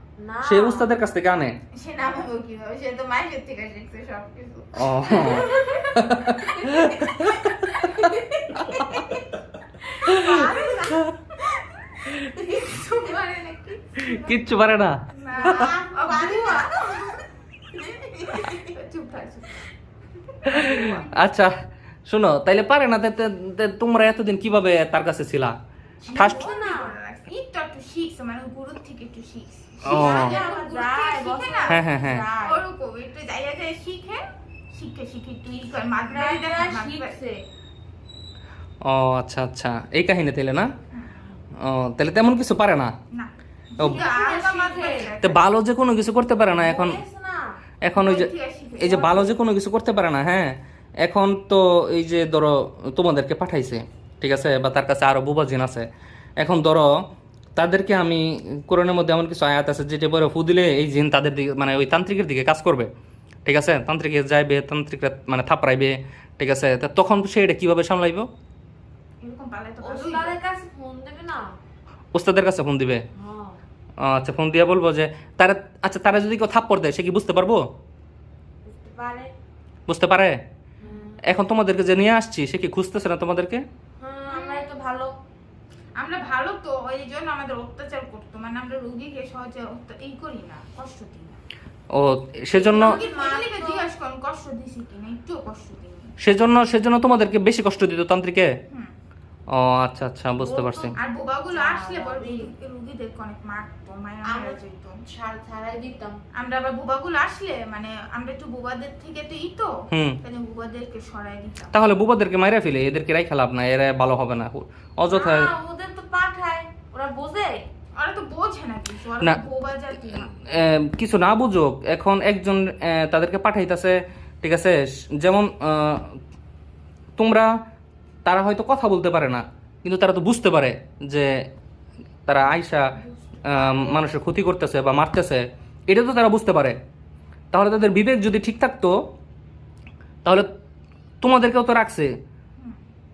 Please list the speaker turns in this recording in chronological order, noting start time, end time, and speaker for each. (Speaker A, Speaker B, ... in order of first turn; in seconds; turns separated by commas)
Speaker A: 0.2-0.9, Speaker B: 0.4-1.6, Speaker C: 1.8-7.3, Speaker B: 4.8-7.9, Speaker A: 5.1-5.5, Speaker A: 6.7-7.1, Speaker A: 7.8-9.1, Speaker B: 8.6-8.8, Speaker A: 9.8-11.0, Speaker B: 10.0-10.3, Speaker C: 10.3-10.7, Speaker C: 12.3-14.5, Speaker B: 14.1-15.7, Speaker C: 15.2-16.7, Speaker A: 15.4-17.2, Speaker A: 17.8-18.7, Speaker C: 18.2-19.7, Speaker A: 20.5-21.1, Speaker B: 20.5-21.5, Speaker C: 20.6-21.0, Speaker B: 22.1-25.5, Speaker A: 26.0-26.9, Speaker C: 26.1-31.8, Speaker B: 26.1-26.4, Speaker B: 29.8-30.4, Speaker A: 29.9-32.6, Speaker B: 31.7-32.2, Speaker C: 32.4-37.1, Speaker A: 36.1-37.5, Speaker B: 38.8-40.7, Speaker B: 41.6-42.9, Speaker C: 43.1-45.4, Speaker A: 43.8-45.1, Speaker B: 45.2-47.0, Speaker A: 46.5-47.6, Speaker B: 47.8-55.9, Speaker C: 47.9-49.4, Speaker B: 56.4-56.9, Speaker B: 57.5-62.9, Speaker B: 63.4-68.3, Speaker C: 69.2-70.4, Speaker A: 69.8-71.5, Speaker B: 72.1-73.0, Speaker A: 73.1-73.6, Speaker B: 74.0-77.6, Speaker A: 78.6-79.3, Speaker B: 79.9-80.4, Speaker A: 80.8-81.4, Speaker B: 81.2-83.6, Speaker A: 84.0-85.2, Speaker C: 84.3-84.7, Speaker C: 86.0-91.4, Speaker B: 91.9-92.9, Speaker A: 92.5-93.9, Speaker C: 92.7-96.1, Speaker B: 96.2-98.5, Speaker B: 99.5-100.9, Speaker A: 100.4-101.0, Speaker C: 101.0-104.9, Speaker A: 101.5-102.5, Speaker A: 104.2-106.2, Speaker C: 106.4-111.7, Speaker B: 109.9-110.2, Speaker B: 111.7-115.5, Speaker A: 115.1-117.6, Speaker C: 118.0-120.3, Speaker B: 120.4-126.2, Speaker B: 127.2-127.5, Speaker B: 128.2-131.3, Speaker B: 132.3-132.9, Speaker A: 132.9-134.1, Speaker B: 133.4-136.8, Speaker B: 137.5-139.0, Speaker B: 141.2-142.2